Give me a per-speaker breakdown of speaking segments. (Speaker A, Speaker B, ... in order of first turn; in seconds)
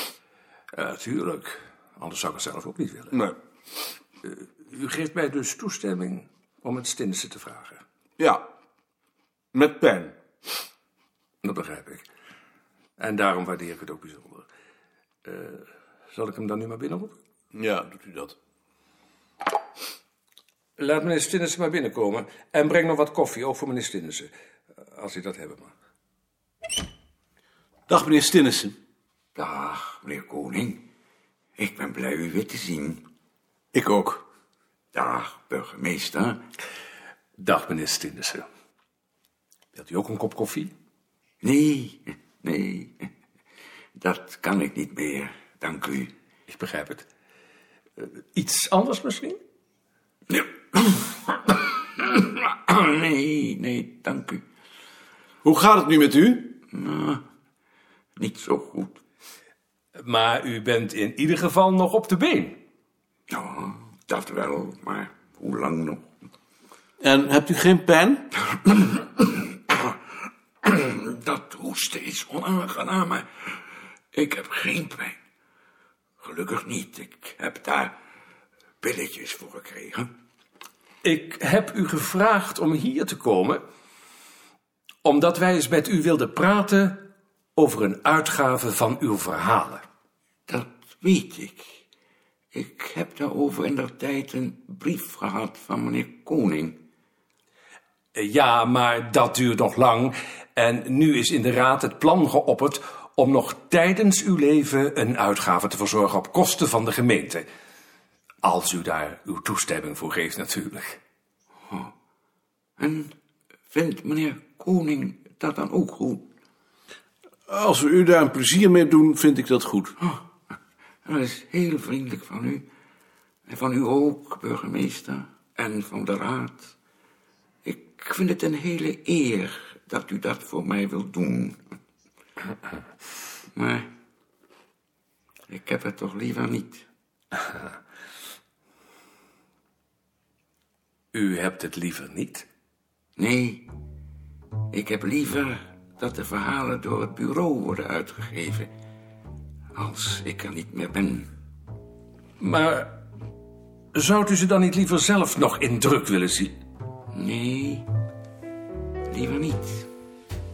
Speaker A: 0.7-3.2, 4.2-7.8, 11.4-12.1, 13.0-14.5, 15.2-17.1, 20.8-24.3, 24.9-25.7, 37.4-38.4, 39.8-40.7, 46.5-47.1, 48.0-49.4, 60.0-62.6, 81.0-83.6, 85.0-89.8, 98.1-107.5, 108.4-111.0, 141.1-142.5, 152.4-152.9, 153.9-156.5
Speaker B: 9.5-10.1, 17.5-18.3, 27.9-28.7, 33.7-34.2, 55.4-56.6, 67.0-68.3, 117.5-120.0
Speaker C: 29.4-30.8, 31.6-33.0, 34.9-36.4, 41.4-42.9, 44.0-46.1, 50.3-54.4, 56.7-57.2, 58.2-59.0, 63.3-66.0, 69.1-69.4, 70.6-73.2, 74.1-75.2, 76.2-77.9, 78.8-80.1, 90.5-91.8, 92.5-96.8, 112.8-113.1, 113.7-116.2, 121.0-122.6, 123.5-126.7, 127.6-131.6, 133.6-133.9, 135.5-136.8, 143.2-143.7, 144.7-148.7, 149.7-151.3, 157.1-157.8, 159.1-159.8